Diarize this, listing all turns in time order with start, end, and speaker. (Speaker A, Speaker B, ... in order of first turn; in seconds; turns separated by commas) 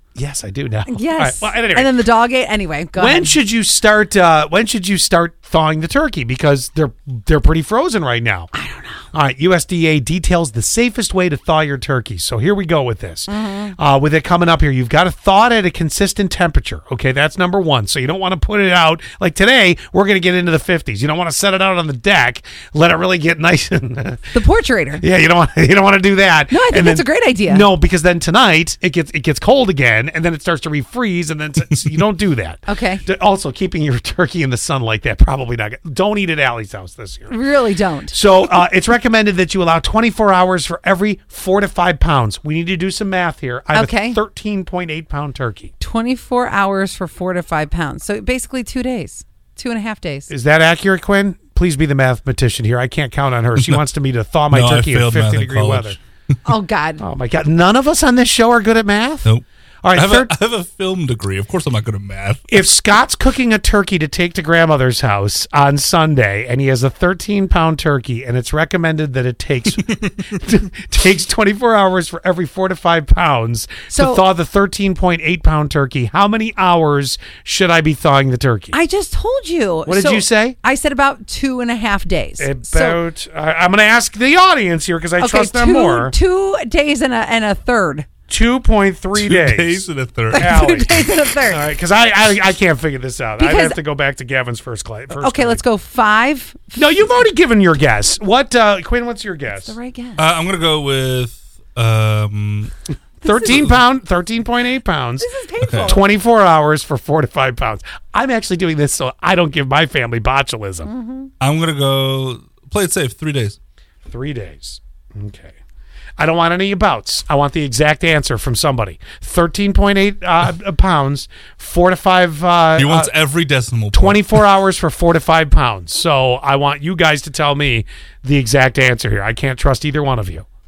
Speaker A: 0.1-1.9, Speaker B: 0.9-3.4, Speaker A: 3.0-8.5, Speaker B: 8.5-9.1, Speaker A: 9.1-24.3, Speaker B: 13.3-13.7, Speaker B: 24.3-25.0, Speaker A: 25.0-37.4, Speaker B: 26.5-27.6, Speaker B: 32.7-33.0, Speaker B: 37.3-38.2, Speaker A: 38.1-45.7, Speaker B: 43.7-44.2, Speaker B: 45.8-50.3, Speaker A: 50.3-56.0, Speaker C: 54.5-56.0, Speaker B: 56.4-57.0, Speaker A: 57.0-60.3, Speaker C: 59.2-62.5, Speaker A: 62.5-78.8, Speaker B: 73.9-74.2, Speaker B: 78.7-83.0, Speaker A: 79.8-80.6, Speaker A: 82.4-86.1, Speaker B: 85.2-88.1, Speaker A: 88.3-89.8, Speaker C: 89.2-90.8, Speaker B: 90.3-91.6, Speaker A: 90.3-95.6, Speaker B: 93.4-93.8, Speaker B: 95.2-97.0, Speaker A: 96.7-99.8, Speaker B: 99.5-100.2, Speaker C: 100.2-102.7, Speaker A: 103.2-105.3, Speaker B: 103.3-103.7, Speaker C: 103.4-103.7, Speaker B: 105.2-106.1, Speaker C: 105.6-105.9, Speaker A: 105.8-110.9, Speaker B: 110.8-111.3, Speaker C: 111.4-113.6, Speaker A: 114.0-115.5, Speaker A: 116.2-123.1, Speaker C: 122.8-124.4, Speaker A: 123.9-130.4